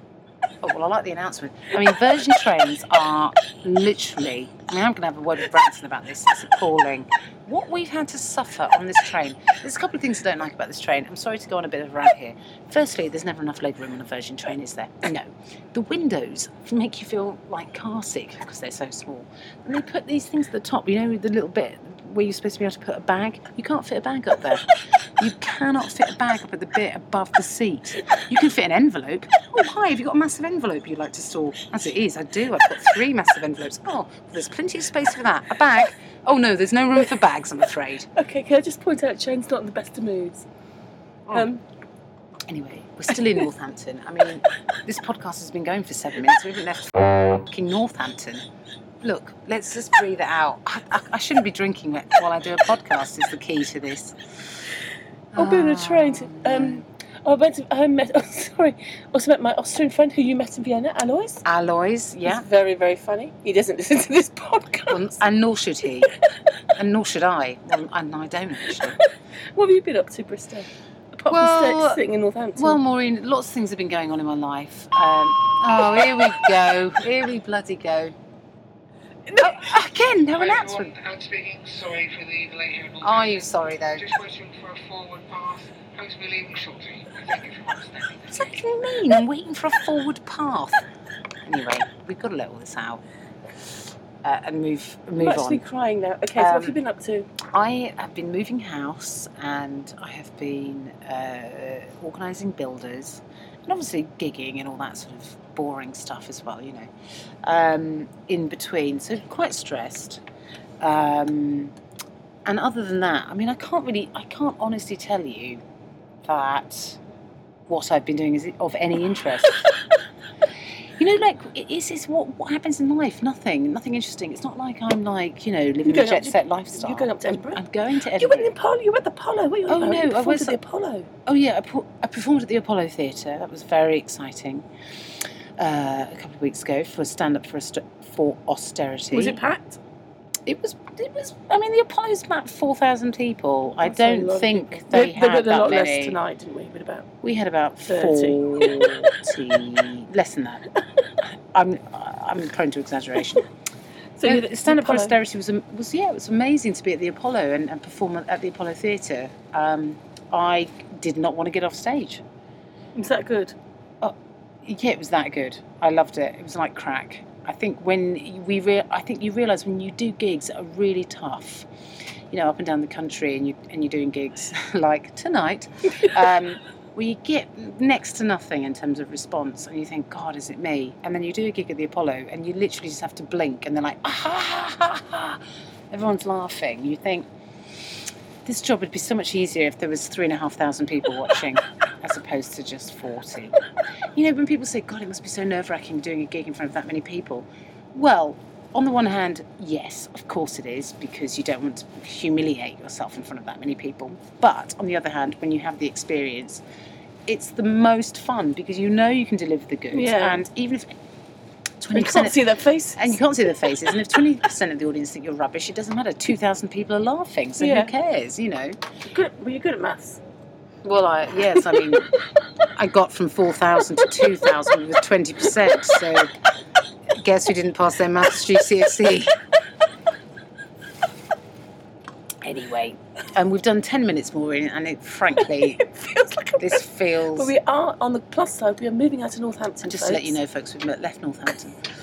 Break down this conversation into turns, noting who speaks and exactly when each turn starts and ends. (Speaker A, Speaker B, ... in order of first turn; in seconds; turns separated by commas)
Speaker A: 0.6-24.6, Speaker A: 25.2-38.1, Speaker B: 38.1-40.5, Speaker B: 41.3-41.6, Speaker A: 42.5-48.4, Speaker A: 49.0-54.2, Speaker A: 55.3-56.8, Speaker B: 55.4-61.4, Speaker A: 61.4-62.5, Speaker B: 62.2-65.1, Speaker A: 64.9-66.1, Speaker A: 66.8-69.0, Speaker B: 69.5-72.8, Speaker A: 71.3-72.0, Speaker A: 72.6-78.1, Speaker B: 79.3-79.6, Speaker A: 79.4-81.0, Speaker C: 80.9-83.0, Speaker A: 83.0-84.1, Speaker C: 84.1-88.1, Speaker A: 88.3-90.8, Speaker A: 91.4-93.0, Speaker A: 94.2-95.6, Speaker B: 95.2-97.3, Speaker A: 96.3-96.8, Speaker A: 97.4-106.9, Speaker A: 107.4-110.2, Speaker A: 110.8-111.7, Speaker A: 112.5-115.6, Speaker A: 116.2-117.0, Speaker A: 117.7-119.7, Speaker A: 121.0-128.5, Speaker B: 125.8-127.6, Speaker B: 128.2-131.1, Speaker A: 129.7-130.6, Speaker A: 131.2-134.6, Speaker A: 135.6-139.4, Speaker B: 139.1-139.8, Speaker A: 140.4-146.2, Speaker B: 143.8-147.1, Speaker A: 147.2-150.6, Speaker B: 147.9-149.0, Speaker A: 151.5-153.5, Speaker B: 154.2-155.1, Speaker A: 154.2-162.2, Speaker B: 162.9-163.5, Speaker A: 164.0-171.7, Speaker A: 172.3-187.3, Speaker A: 188.4-193.6, Speaker A: 194.1-206.6, Speaker A: 207.3-210.9, Speaker B: 209.9-210.4, Speaker A: 211.8-212.4, Speaker B: 211.9-213.2, Speaker A: 212.9-218.8, Speaker B: 217.6-217.9, Speaker B: 219.0-220.2, Speaker A: 220.8-222.1, Speaker A: 222.7-226.3, Speaker A: 227.2-229.3, Speaker A: 232.4-235.8, Speaker B: 235.5-236.8, Speaker A: 236.6-237.5, Speaker B: 237.3-240.3, Speaker A: 239.8-241.8